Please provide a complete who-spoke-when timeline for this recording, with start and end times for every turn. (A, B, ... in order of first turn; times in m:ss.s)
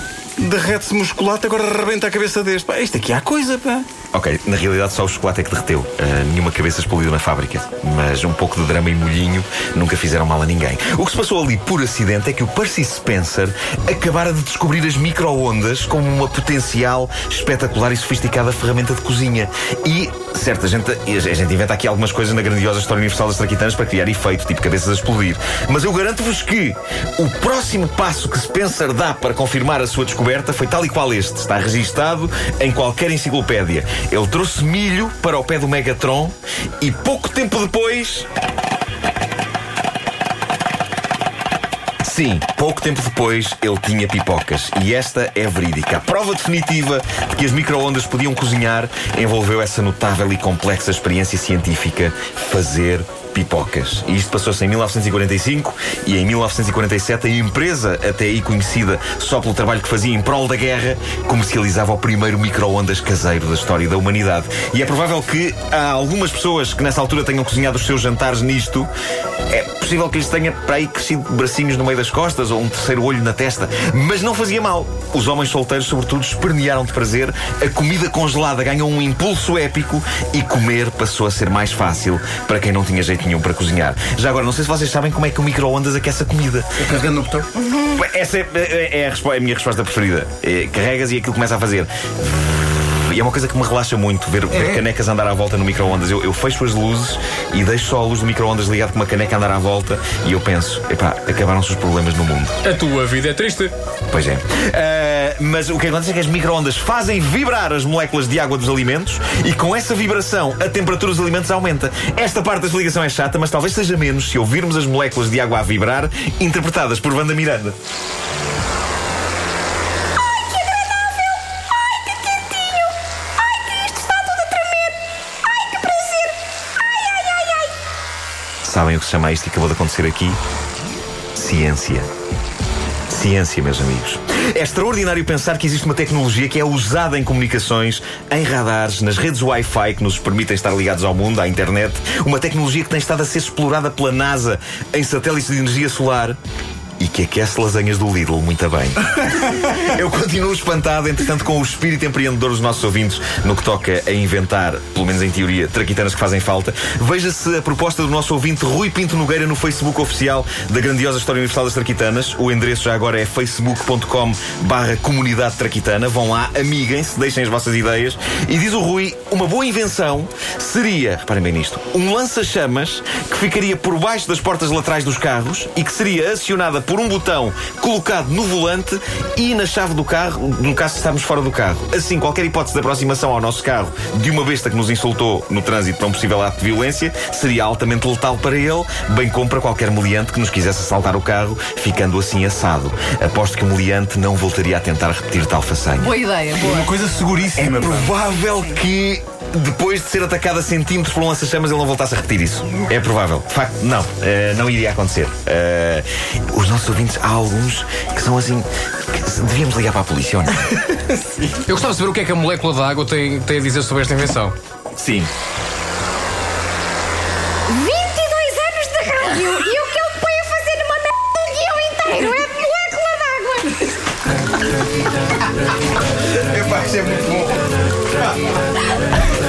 0:00.4-0:03.9 A
0:04.1-0:38.3 B
0:42.0-1:08.9 B
1:09.5-1:26.7 B
1:26.9-1:27.5 A
1:27.6-1:27.9 C
1:27.8-1:42.6 B
1:42.6-1:43.7 D
1:44.1-1:57.8 B
2:02.2-2:02.7 C
2:03.7-2:04.9 C
2:05.7-2:06.3 C
2:06.9-2:07.7 C
2:08.6-2:10.4 B
2:11.4-2:12.1 B
2:13.1-2:26.4 B
2:27.0-3:16.2 B
3:16.0-3:17.0 C
3:16.7-3:17.7 D
3:16.7-3:17.9 A
3:17.6-3:31.5 B
3:31.6-3:34.6 D
3:35.0-3:35.3 B
3:37.7-3:44.0 C
3:46.5-3:47.4 B